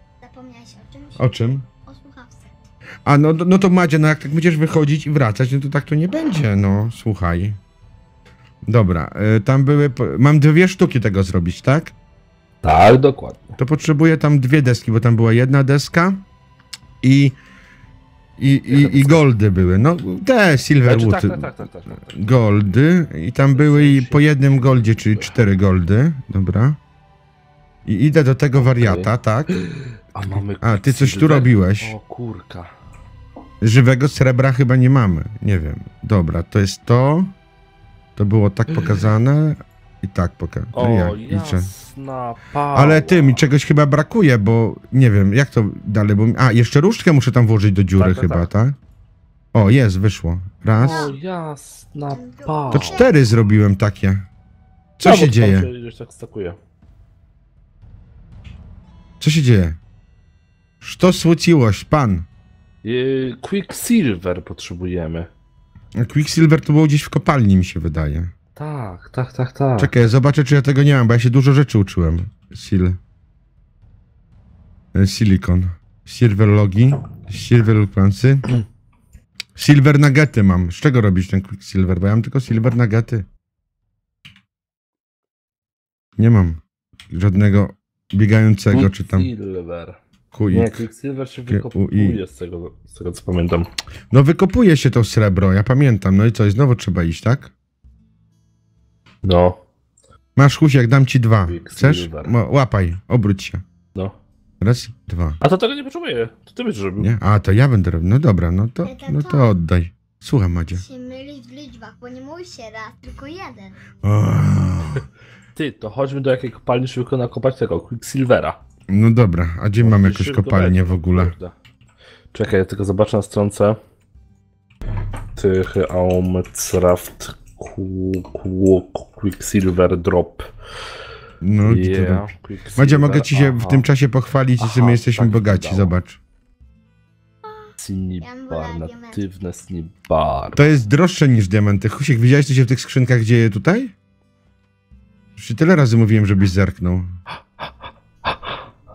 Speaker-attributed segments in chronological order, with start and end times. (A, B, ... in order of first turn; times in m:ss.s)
0:00.2-0:01.3 A
0:01.2-0:01.7 B
0:01.9-0:02.5 A
0:03.1-0:07.6 B
0:08.6-0:11.9 B
0:12.6-0:13.6 C
0:13.6-0:16.2 B
0:17.0-0:17.4 B
0:18.4-0:21.5 B
0:18.7-0:19.2 C
0:20.8-0:22.2 C
0:22.2-0:26.8 B
0:23.6-0:24.3 C
0:27.8-0:29.5 B
0:28.6-0:32.7 C
0:30.3-0:31.9 B
0:33.6-0:37.3 B
0:38.2-0:41.7 B
0:38.7-0:39.1 C
0:40.7-0:43.4 C
0:42.7-0:48.8 B
0:48.0-0:48.5 C
0:49.5-0:51.1 B
0:50.8-0:53.1 C
0:50.8-0:51.2 A
0:52.1-0:53.3 A
0:52.7-0:54.3 B
0:55.0-0:55.7 B
0:55.0-0:56.6 C
0:59.2-0:59.8 B
1:00.8-1:02.3 B
1:02.8-1:05.3 C
1:06.0-1:08.3 B
1:08.6-1:10.0 C
1:09.8-1:13.0 B
1:14.9-1:18.5 B
1:19.6-1:23.3 B
1:26.2-1:29.3 B
1:28.7-1:30.0 C
1:30.3-1:30.8 B
1:30.5-1:33.7 C
1:31.5-1:32.2 B
1:34.1-1:37.5 B
1:39.2-1:39.6 C
1:40.4-1:43.6 B
1:41.5-1:42.4 C
1:44.6-1:45.4 B
1:45.4-1:47.1 C
1:47.0-1:50.8 B
1:48.8-1:49.5 A
1:50.8-1:53.8 A
1:54.0-1:55.1 B
1:55.6-1:58.6 C
1:58.9-2:01.3 B
1:59.8-2:01.6 C
2:02.3-2:03.8 C
2:05.4-2:10.5 C
2:11.4-2:16.2 B
2:11.6-2:13.9 C
2:14.6-2:15.9 C
2:17.4-2:19.2 A
2:17.8-2:20.7 C
2:20.6-2:23.9 B
2:25.4-2:27.1 B
2:28.3-2:28.6 C